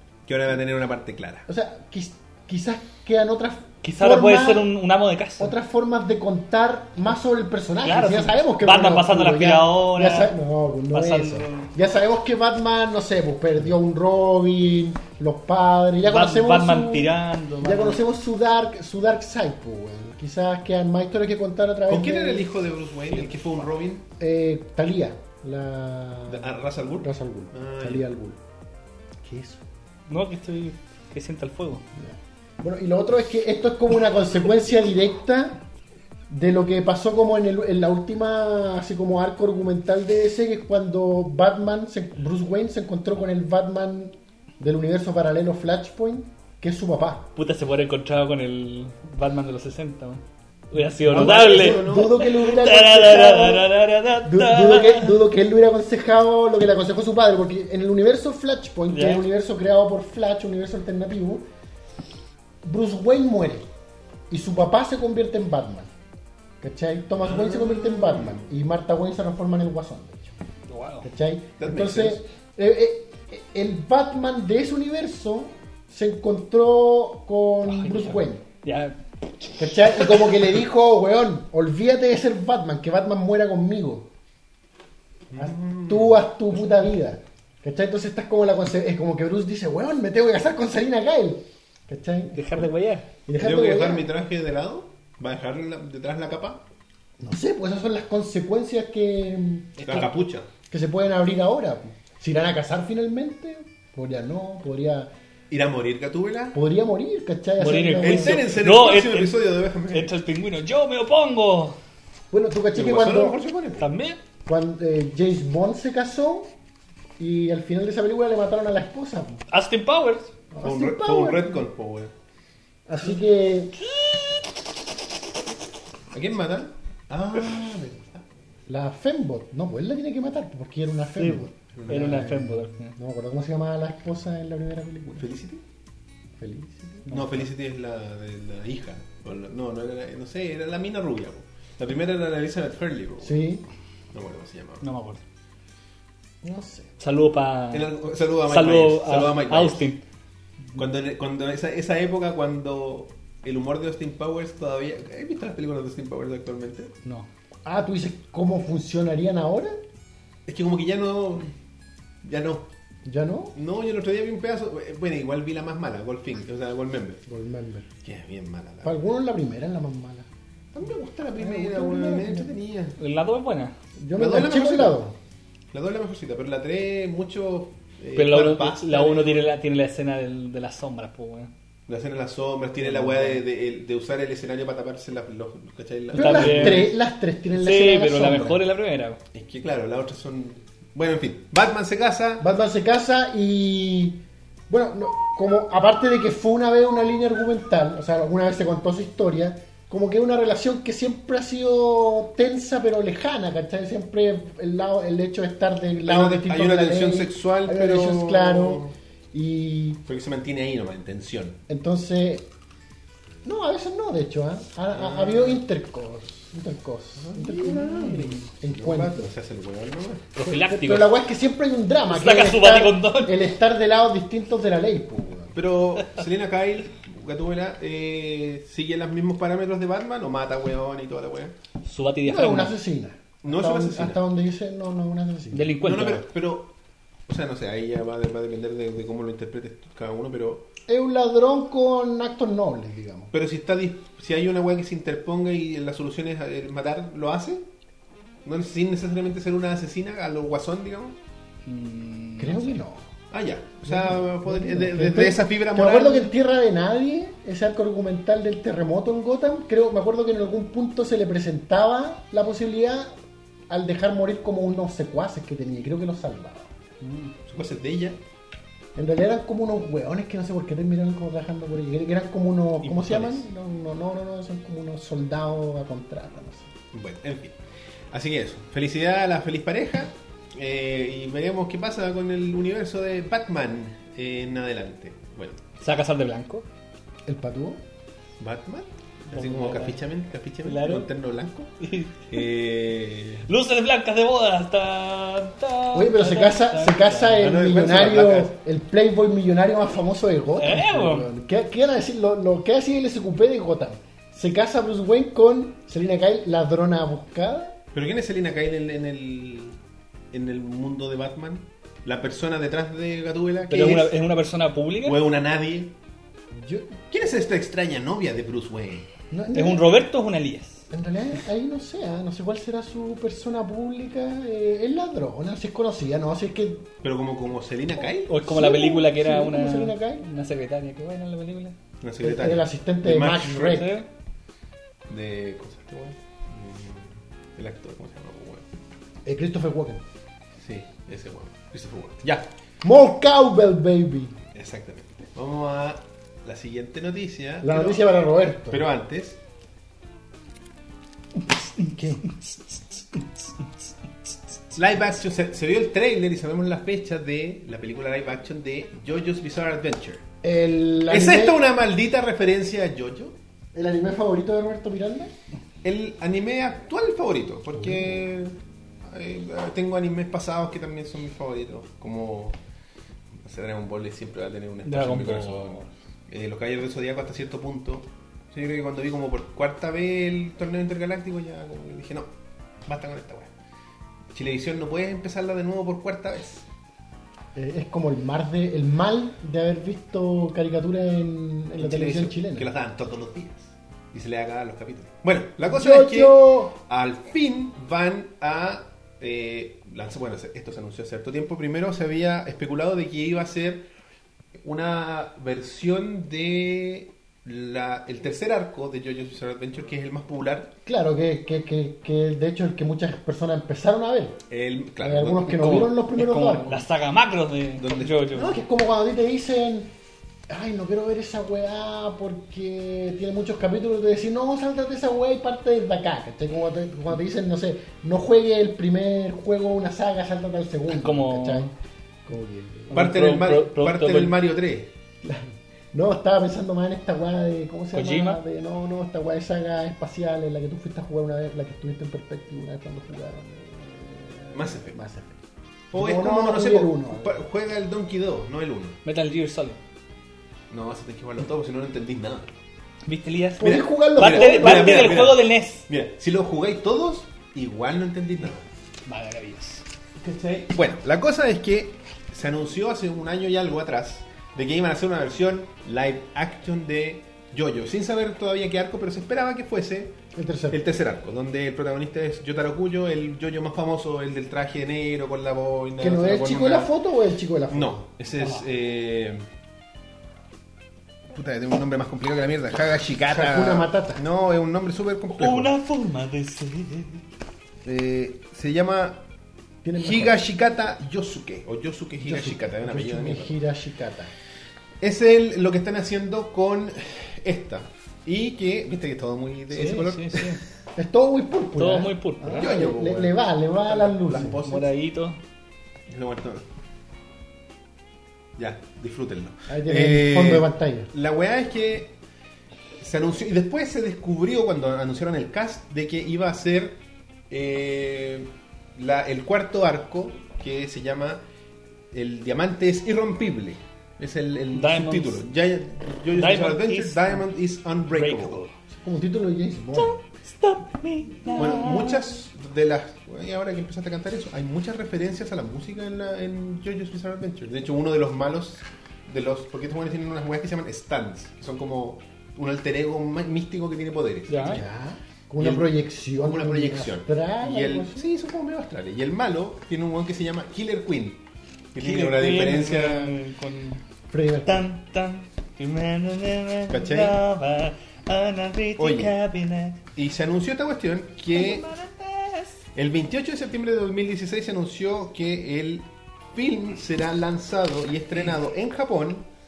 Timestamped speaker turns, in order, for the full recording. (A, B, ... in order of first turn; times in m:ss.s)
0:00.2-0:01.4 A
0:01.5-0:04.7 B
0:03.8-0:05.5 C
0:05.4-0:22.5 B
0:07.8-0:10.3 C
0:10.9-0:11.7 C
0:16.0-0:18.0 C
0:21.9-0:24.0 A
0:24.2-0:26.5 B
0:26.3-0:28.1 A
0:27.0-0:28.4 B
0:29.2-0:29.6 B
0:30.1-0:31.8 C
0:31.9-0:35.6 B
0:36.3-0:47.3 B
0:47.4-0:55.2 C
0:50.8-0:53.7 B
0:51.1-0:52.3 A
0:54.2-1:01.4 B
0:58.9-0:59.2 C
1:02.6-1:03.7 B
1:04.3-1:05.9 B
1:06.6-1:10.3 B
1:07.2-1:08.5 A
1:10.7-1:11.1 C
1:11.0-1:18.4 B
1:11.6-1:12.2 A
1:17.6-1:19.0 C
1:19.6-1:24.1 B
1:19.7-1:20.3 C
1:25.3-1:26.2 A
1:25.4-1:32.7 B
1:32.3-1:33.1 C
1:33.2-1:34.1 B
1:33.4-1:36.6 A
1:37.2-1:39.8 B
1:39.8-1:40.2 C
1:39.8-1:40.5 A
1:40.7-1:45.1 B
1:45.5-1:46.6 A
1:46.5-1:48.4 B
1:47.6-1:51.8 C
1:48.0-1:50.1 A
1:52.3-1:53.4 B
1:52.7-1:53.9 A
1:53.8-1:54.2 C
1:54.4-1:56.5 B
1:57.2-1:59.4 B
1:59.5-2:00.3 C
2:00.5-2:01.6 B
2:00.6-2:02.1 A
2:02.9-2:03.8 B
2:06.1-2:08.2 A
2:08.7-2:15.3 B
2:11.2-2:13.0 C
2:11.7-2:12.3 A
2:15.2-2:15.6 A
2:16.4-2:17.0 B
2:17.0-2:17.4 C
2:17.1-2:23.4 A
2:23.2-2:23.6 B
2:24.1-2:24.8 A
2:24.8-2:25.2 C
2:26.4-2:26.9 B
2:27.0-2:27.9 C
2:27.7-2:29.9 A
2:28.4-2:30.0 C
2:30.8-2:36.9 A
2:37.6-2:39.8 B
2:40.4-2:41.5 A
2:42.2-2:42.7 A
2:43.0-2:43.5 B
2:43.5-2:47.2 A
2:47.2-2:47.9 B
2:48.0-2:49.0 A
2:48.8-2:50.3 B
2:50.7-2:53.0 A
2:51.4-2:52.5 B
2:53.0-2:53.7 C
2:54.0-2:55.1 B
2:54.2-2:55.0 A
2:55.7-2:59.4 A
2:58.2-3:01.5 C
3:01.9-3:06.9 A
3:02.8-3:03.4 C
3:06.1-3:08.6 B
3:06.1-3:06.9 C
3:07.5-3:09.2 C
3:09.3-3:12.4 A
3:12.4-3:30.0 B
3:26.0-3:28.9 A
3:30.0-3:31.6 A
3:31.7-3:32.5 B
3:33.4-3:39.3 B
3:34.9-3:35.6 A
3:37.2-3:40.3 A
3:40.3-3:41.1 C
3:40.4-3:45.6 B
3:42.1-3:43.4 C
3:45.5-3:51.5 A
3:51.8-3:52.7 C
3:52.2-3:55.7 B
3:53.4-3:54.2 A
3:55.5-3:56.2 C
3:55.8-3:56.7 A
3:57.3-4:00.7 A
4:00.9-4:03.3 B
4:03.3-4:07.6 A
4:08.4-4:11.2 A
4:11.6-4:12.8 C
4:12.4-4:13.0 B
4:13.3-4:16.3 A
4:13.8-4:23.1 B
4:23.7-4:26.7 B
4:27.0-4:27.3 C
4:27.5-4:28.2 A
4:29.0-4:36.7 B
4:32.8-4:33.5 A
4:36.9-4:37.6 A
4:38.1-4:45.6 A
4:45.8-4:46.6 C
4:47.3-4:47.8 B
4:48.4-4:51.7 A
4:49.3-4:50.0 C
4:50.6-4:51.1 C
4:51.8-4:52.3 C
4:52.3-4:53.5 A
4:53.5-4:57.5 C
4:55.9-5:07.8 B
4:57.4-4:58.5 A
5:00.6-5:01.3 C
5:07.9-5:09.8 A
5:10.3-5:14.2 A
5:13.7-5:15.2 C
5:15.0-5:15.9 A
5:16.6-5:17.0 B
5:17.1-5:19.1 A
5:19.3-5:19.9 B
5:19.5-5:20.8 C
5:20.9-5:26.9 B
5:27.0-5:28.3 A
5:28.3-5:31.8 C
5:28.4-5:30.2 B
5:32.0-5:33.8 A
5:32.2-5:33.9 B
5:33.5-5:34.1 C
5:35.1-5:38.6 A
5:39.2-5:40.0 B
5:40.6-5:42.5 A
5:42.8-5:44.4 B
5:44.5-5:49.4 A
5:47.6-5:48.8 B
5:51.8-5:52.3 B
5:54.7-6:00.2 A
6:00.4-6:01.6 B
6:01.1-6:03.4 A
6:03.7-6:05.3 B
6:05.8-6:12.6 A
6:13.4-6:22.3 A
6:14.8-6:15.8 C
6:22.8-6:23.5 A
6:24.3-6:26.6 A
6:27.5-6:32.7 B
6:31.8-6:43.9 A
6:35.6-6:36.7 B
6:44.6-6:50.7 A
6:50.8-6:54.4 B
6:54.5-6:55.8 A
6:55.0-6:56.8 B
6:55.5-6:58.6 C
6:57.8-6:58.3 A
6:58.3-6:59.9 B
7:00.5-7:11.7 B
7:10.9-7:11.7 C
7:12.2-7:13.0 B
7:12.9-7:14.4 C
7:12.9-7:14.9 A
7:15.2-7:25.4 B
7:17.9-7:18.4 C
7:24.5-7:25.0 A
7:25.9-7:29.0 A
7:25.9-7:27.4 B
7:29.0-7:29.8 C
7:30.7-7:32.5 A
7:33.0-7:35.8 C
7:33.6-7:35.1 B
7:33.6-7:38.6 A
7:39.0-7:39.8 C
7:40.2-7:50.2 A
7:50.3-7:50.8 B
7:50.7-7:56.9 A
7:56.0-7:58.0 B
7:57.7-7:59.4 A
8:01.3-8:05.7 A
8:03.3-8:04.2 B
8:05.4-8:07.2 C
8:07.8-8:09.2 A
8:09.8-8:10.4 B
8:10.0-8:13.6 A
8:12.2-8:14.3 B
8:15.0-8:20.6 A
8:19.7-8:20.6 C
8:21.0-8:24.6 B
8:21.8-8:22.7 C
8:22.5-8:24.9 A
8:24.5-8:25.4 C
8:26.1-8:26.6 A
8:28.6-8:32.1 A
8:29.7-8:31.1 B
8:33.0-8:37.0 A
8:37.5-8:41.4 A
8:42.1-8:48.6 A
8:44.7-8:45.4 C
8:46.3-8:47.4 C
8:48.1-8:48.7 C
8:48.9-8:50.2 B
8:50.0-8:52.3 C
8:51.5-9:04.8 A
9:04.5-9:04.8 C
9:04.6-9:08.3 B
9:05.6-9:11.4 A
9:11.9-9:13.4 A
9:12.0-9:14.0 C
9:14.3-9:14.9 B
9:14.6-9:20.0 C
9:16.9-9:17.4 A
9:19.0-9:19.3 A
9:20.2-9:21.9 A
9:21.5-9:22.8 C
9:22.9-9:29.5 A